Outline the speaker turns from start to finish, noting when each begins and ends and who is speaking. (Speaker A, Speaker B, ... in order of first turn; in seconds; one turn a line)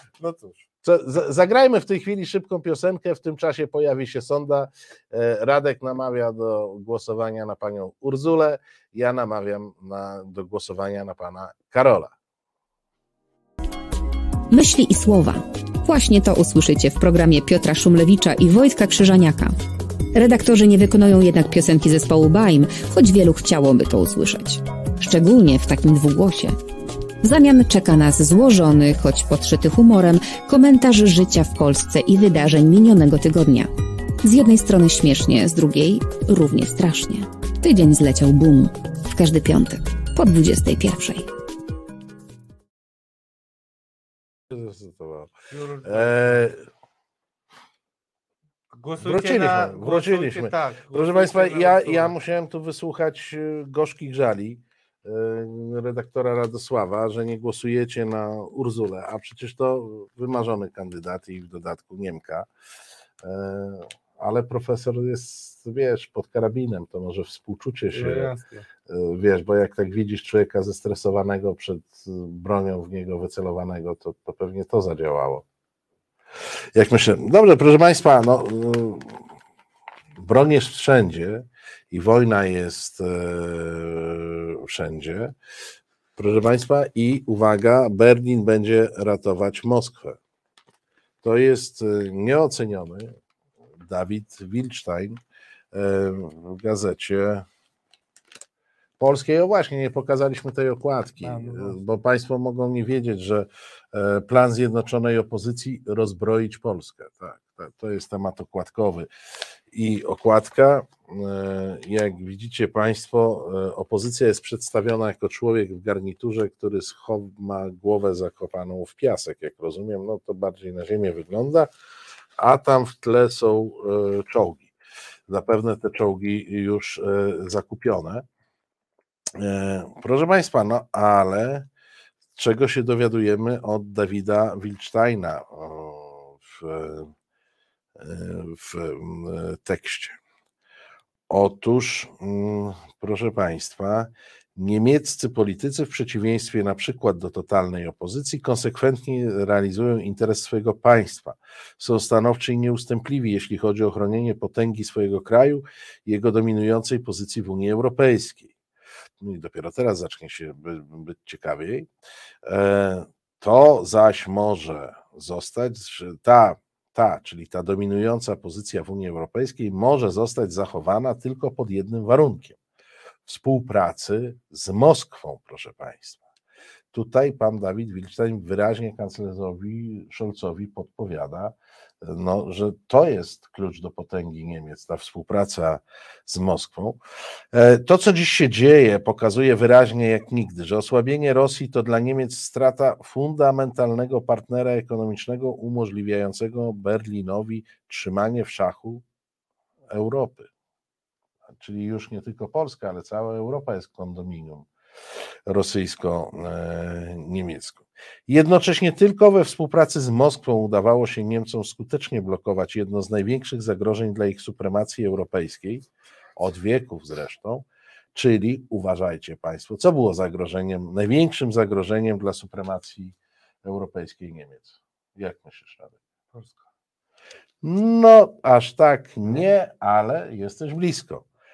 Speaker A: 0.2-0.6
Speaker B: 0.8-12.1
Speaker C: 14.5-19.6
Speaker C: 20.1-26.6
Speaker C: 27.2-33.7
Speaker C: 34.2-41.3
Speaker B: 44.5-45.3
Speaker A: 45.5-46.5
Speaker B: 45.8-46.6
Speaker A: 48.7-52.1
Speaker B: 49.0-62.5
Speaker B: 63.2-68.3
Speaker A: 67.9-68.7
Speaker B: 68.9-75.4
Speaker B: 76.7-79.2
Speaker B: 80.2-85.3
Speaker B: 86.2-90.2
Speaker B: 91.2-93.2
Speaker B: 93.8-95.2
Speaker B: 95.7-97.5
Speaker B: 99.0-109.1
Speaker A: 101.2-101.8
Speaker B: 109.7-121.7
Speaker B: 122.4-124.7
Speaker B: 125.3-128.2
Speaker B: 129.3-131.7
Speaker B: 132.4-137.1
Speaker B: 138.0-140.2
Speaker B: 141.3-158.5
Speaker B: 159.2-161.9
Speaker B: 162.4-172.6
Speaker B: 173.2-176.2
Speaker B: 176.9-187.0
Speaker B: 187.5-199.0
Speaker B: 199.9-200.5
Speaker B: 201.5-204.7
Speaker B: 205.5-225.9
Speaker A: 226.3-226.6
Speaker B: 227.6-231.2